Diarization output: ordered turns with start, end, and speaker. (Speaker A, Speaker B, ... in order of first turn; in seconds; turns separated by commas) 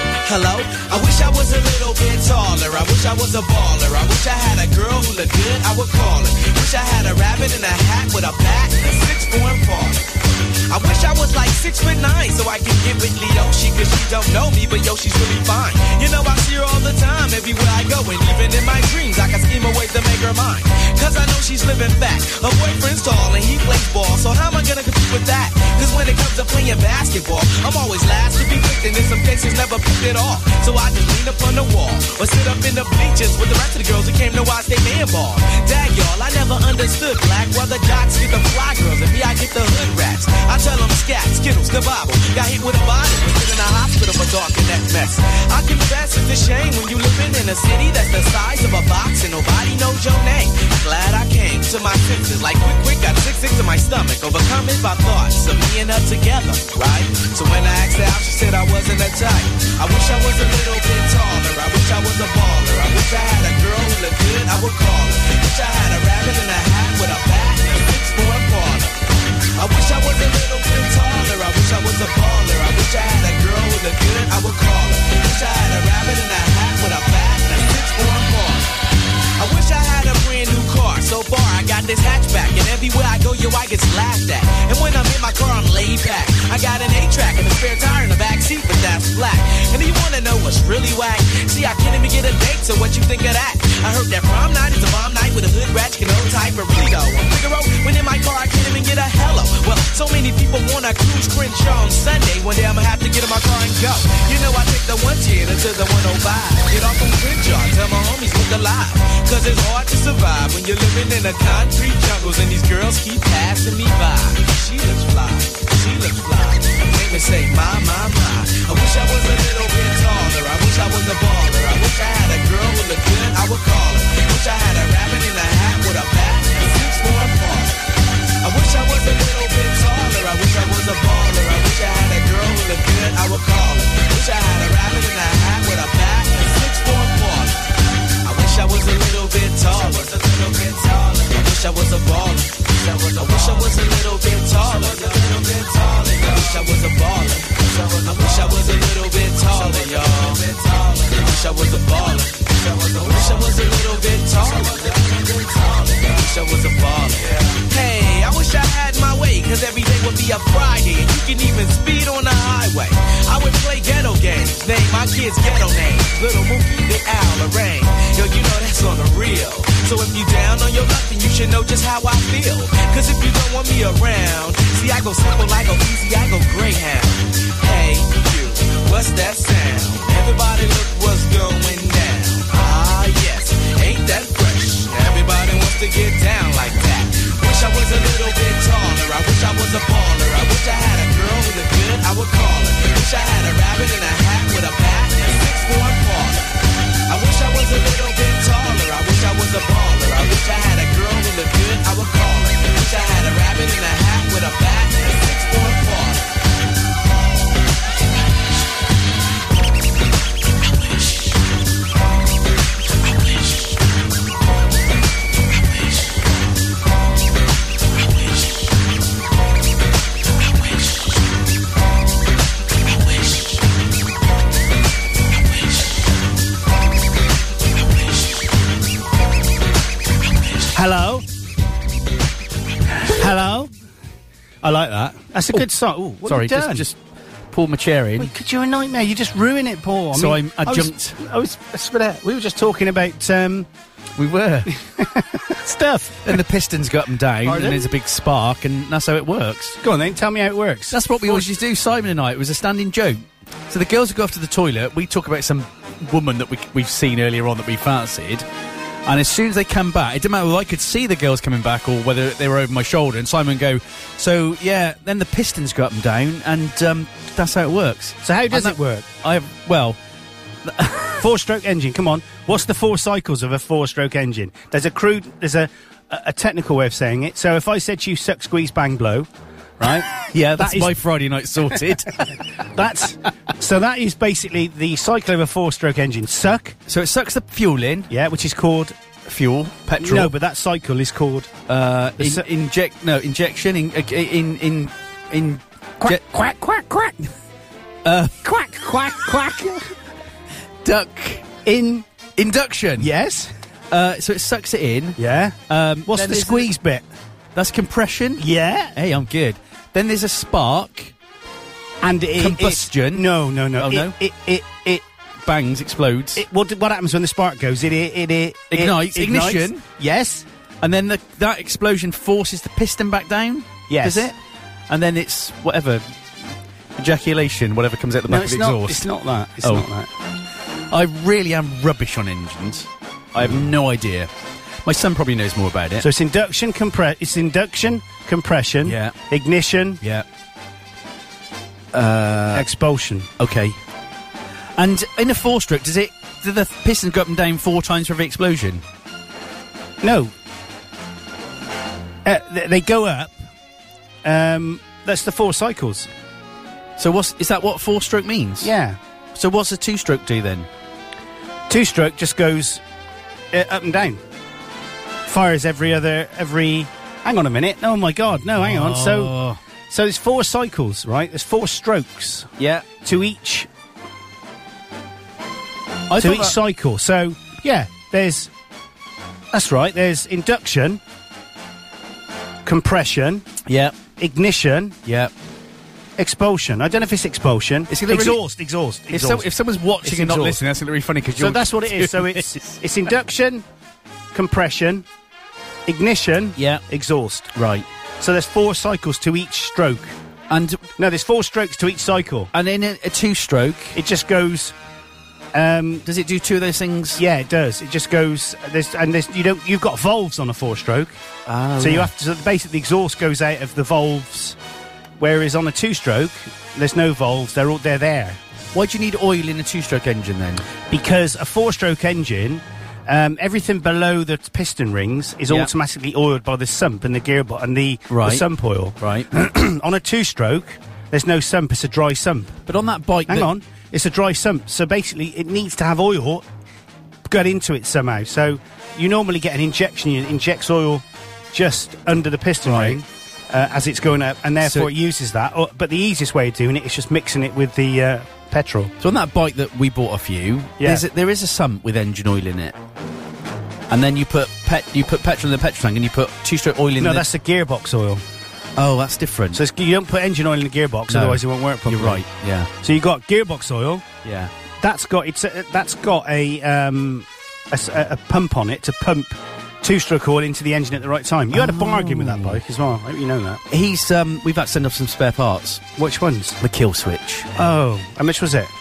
Speaker A: 0.2-69.0, Speaker A: 69.5-78.8, Speaker A: 79.4-127.9, Speaker A: 128.4-137.7, Speaker A: 138.2-206.3, Speaker B: 230.7-231.2, Speaker B: 232.9-233.7, Speaker B: 234.6-236.9, Speaker C: 236.2-237.0, Speaker C: 237.5-238.3, Speaker B: 238.2-243.7, Speaker C: 240.1-241.2, Speaker C: 244.2-244.7, Speaker B: 244.7-246.4, Speaker C: 246.2-249.8, Speaker B: 247.4-247.9, Speaker B: 249.8-251.5, Speaker C: 250.9-258.4, Speaker C: 259.1-270.0, Speaker B: 268.2-269.1, Speaker C: 270.6-271.1, Speaker B: 271.2-280.9, Speaker C: 279.8-282.4, Speaker B: 281.7-286.8, Speaker C: 286.9-288.1, Speaker B: 288.1-288.9, Speaker C: 289.2-290.3, Speaker B: 290.0-291.5, Speaker C: 291.7-296.2, Speaker B: 292.2-292.4, Speaker B: 296.0-297.3, Speaker C: 298.0-298.3, Speaker B: 298.3-299.9, Speaker C: 300.8-301.5, Speaker B: 301.6-302.1, Speaker C: 302.4-303.1, Speaker B: 303.0-303.5, Speaker C: 303.9-306.7, Speaker B: 305.2-307.0, Speaker C: 307.5-311.1, Speaker B: 308.4-308.9, Speaker B: 312.0-315.0, Speaker C: 312.4-314.1, Speaker C: 315.4-316.4, Speaker B: 316.4-320.4, Speaker C: 318.7-319.8, Speaker C: 320.8-324.3, Speaker B: 323.9-324.3, Speaker C: 324.9-326.0, Speaker C: 327.0-329.1, Speaker B: 328.3-330.1, Speaker C: 329.6-329.9, Speaker C: 330.9-334.3, Speaker B: 333.4-333.7, Speaker C: 334.8-336.1, Speaker B: 336.0-340.0, Speaker C: 338.8-339.1, Speaker C: 341.9-342.7, Speaker B: 342.5-343.3, Speaker C: 343.4-343.8, Speaker C: 344.8-348.8, Speaker B: 350.0-350.3, Speaker B: 352.2-353.4, Speaker B: 354.2-356.1, Speaker C: 357.0-358.7, Speaker B: 358.6-359.0, Speaker C: 359.3-360.7, Speaker B: 361.7-362.8, Speaker B: 363.5-364.2, Speaker B: 365.2-369.3, Speaker C: 368.6-369.6, Speaker B: 369.9-373.7, Speaker C: 372.6-372.8, Speaker C: 376.1-376.6, Speaker B: 376.2-378.5, Speaker B: 379.5-381.0, Speaker B: 382.6-383.5, Speaker C: 383.7-383.9, Speaker B: 384.2-385.0, Speaker C: 385.1-385.3, Speaker B: 386.2-389.5, Speaker C: 387.9-388.4, Speaker C: 389.1-392.7, Speaker B: 390.0-390.6, Speaker B: 391.4-393.6, Speaker B: 394.3-395.1, Speaker B: 395.9-397.5, Speaker C: 396.6-396.8, Speaker C: 397.5-397.9, Speaker B: 398.2-400.1, Speaker C: 400.5-400.8, Speaker B: 401.0-402.5, Speaker C: 402.5-404.0, Speaker B: 403.9-404.7, Speaker B: 405.5-406.0, Speaker C: 406.1-407.2, Speaker B: 407.1-411.2, Speaker C: 411.4-412.1, Speaker B: 411.8-414.6, Speaker B: 415.2-418.4, Speaker C: 418.7-420.6, Speaker B: 420.9-432.6, Speaker C: 428.1-428.4, Speaker C: 429.0-429.3, Speaker C: 432.7-433.5, Speaker B: 433.3-436.4, Speaker B: 437.2-448.9, Speaker C: 442.6-443.0, Speaker C: 444.6-444.9, Speaker C: 449.0-452.8, Speaker B: 450.8-451.0, Speaker C: 453.9-457.2, Speaker B: 457.0-458.2, Speaker C: 458.8-459.6, Speaker B: 459.5-462.2, Speaker C: 461.1-462.7, Speaker B: 462.8-464.1, Speaker C: 464.2-464.5, Speaker B: 464.8-473.6, Speaker C: 471.5-472.6, Speaker C: 473.7-475.8, Speaker B: 475.9-476.6, Speaker C: 476.6-477.5, Speaker B: 477.5-478.7